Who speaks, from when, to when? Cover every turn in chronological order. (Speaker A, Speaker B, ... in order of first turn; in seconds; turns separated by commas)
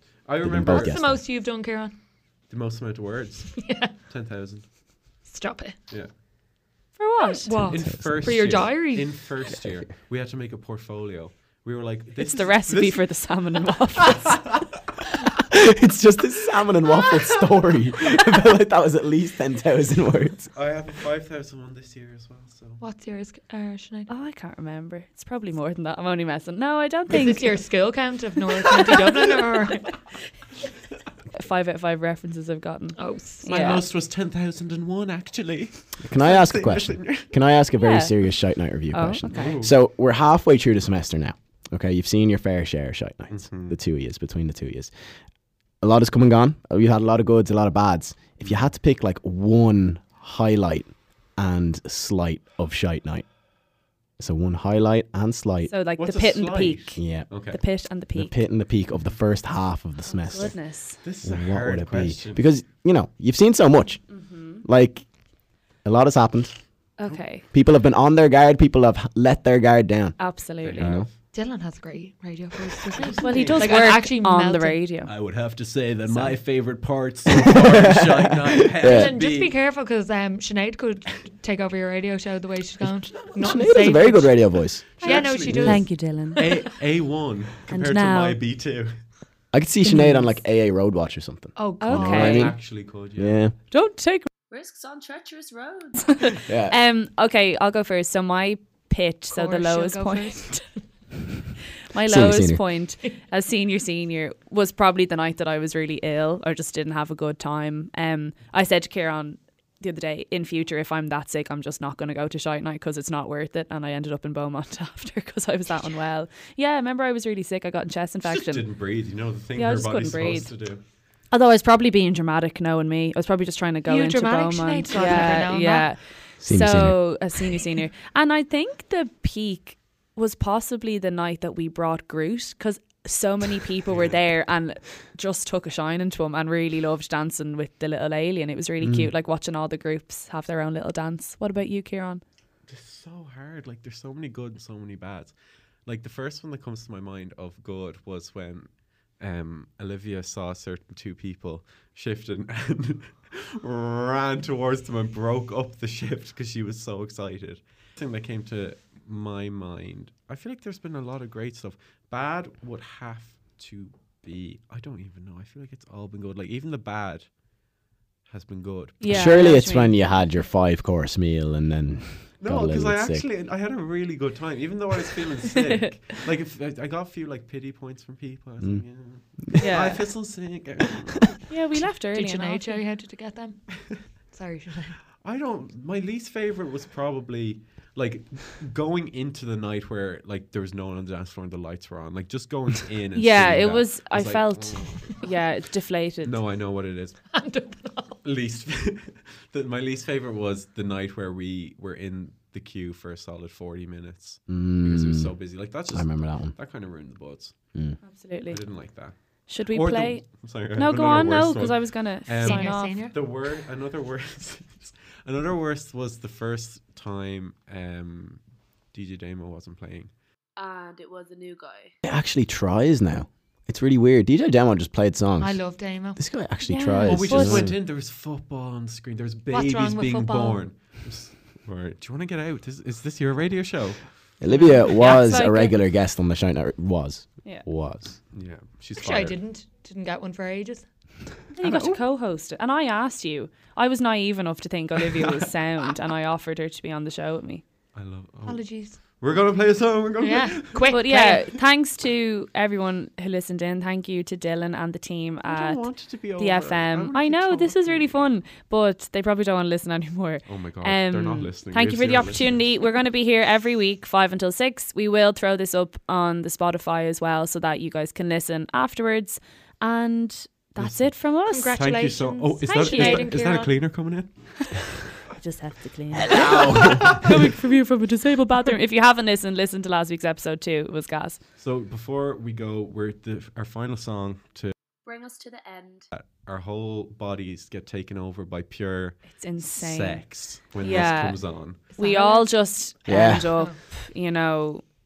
Speaker A: 0.2-1.0, Speaker B: 0.4-1.2, Speaker C: 0.7-1.9, Speaker A: 2.5-4.7, Speaker C: 3.6-3.9, Speaker C: 5.2-5.8, Speaker D: 7.0-7.6, Speaker C: 7.4-9.1, Speaker A: 7.6-13.4, Speaker B: 7.8-8.4, Speaker D: 12.2-14.4, Speaker A: 14.0-14.5, Speaker B: 15.5-20.5, Speaker A: 20.5-22.8, Speaker C: 22.8-24.1, Speaker D: 24.1-27.7, Speaker C: 27.1-30.2, Speaker D: 31.3-33.9, Speaker C: 33.0-33.8, Speaker A: 33.5-37.3, Speaker B: 36.0-44.9, Speaker D: 37.8-38.1, Speaker D: 38.9-39.6, Speaker A: 39.3-39.8, Speaker A: 43.3-43.8, Speaker B: 45.8-53.4, Speaker B: 54.2-55.7, Speaker D: 55.7-58.3, Speaker A: 56.0-57.6, Speaker B: 57.0-57.3, Speaker B: 58.1-71.1, Speaker D: 60.1-61.0, Speaker A: 61.0-62.5, Speaker D: 64.1-64.6, Speaker D: 67.0-67.5, Speaker D: 70.2-70.9, Speaker A: 70.6-71.2, Speaker C: 71.3-74.8, Speaker A: 72.9-74.0, Speaker D: 73.2-75.1, Speaker A: 75.0-79.5, Speaker D: 76.1-76.3, Speaker B: 77.5-79.2, Speaker C: 78.8-86.5, Speaker B: 82.8-85.9, Speaker A: 85.0-89.0, Speaker D: 85.0-86.7, Speaker D: 87.7-88.4, Speaker B: 89.5-93.5, Speaker D: 89.8-90.3, Speaker C: 91.6-92.4, Speaker D: 91.8-92.5, Speaker A: 92.0-93.4, Speaker D: 93.7-94.3, Speaker E: 94.5-96.4, Speaker D: 96.1-100.6, Speaker B: 96.5-96.8, Speaker C: 99.3-100.8, Speaker D: 101.9-118.7, Speaker B: 102.0-102.7, Speaker A: 118.3-120.8, Speaker D: 119.6-120.6, Speaker D: 121.3-142.2, Speaker C: 123.9-125.9, Speaker B: 126.4-127.3, Speaker B: 138.8-139.1, Speaker A: 142.7-167.7, Speaker A: 168.2-169.4, Speaker D: 169.0-169.9, Speaker B: 169.1-173.3, Speaker A: 172.4-181.5, Speaker D: 179.6-180.1, Speaker D: 181.5-182.8, Speaker C: 182.1-185.0, Speaker A: 185.2-195.1, Speaker D: 193.2-196.4, Speaker A: 196.2-197.4, Speaker C: 197.3-198.2, Speaker A: 198.2-220.1, Speaker B: 204.5-206.6, Speaker B: 207.7-208.0, Speaker D: 208.0-208.8, Speaker D: 209.5-213.0, Speaker C: 212.4-213.2, Speaker E: 220.6-221.9, Speaker B: 222.0-227.7, Speaker C: 225.4-226.2, Speaker D: 226.6-227.7, Speaker A: 227.0-234.3, Speaker C: 229.5-230.6, Speaker B: 234.4-238.2, Speaker D: 234.5-235.8, Speaker A: 238.3-239.4, Speaker C: 239.0-240.9, Speaker D: 241.5-247.6, Speaker A: 241.6-242.0, Speaker A: 247.9-251.0, Speaker C: 248.5-249.0, Speaker C: 250.2-251.5, Speaker D: 250.9-271.8, Speaker A: 255.4-258.3, Speaker A: 260.5-262.7, Speaker A: 270.8-275.2, Speaker C: 271.5-273.7, Speaker D: 272.6-273.3, Speaker D: 275.3-281.4, Speaker B: 276.1-277.1, Speaker A: 276.3-277.4, Speaker A: 281.6-284.7, Speaker E: 285.1-286.1, Speaker A: 286.1-291.9, Speaker D: 289.3-294.9, Speaker C: 291.9-292.6, Speaker B: 293.1-293.5, Speaker C: 293.1-293.8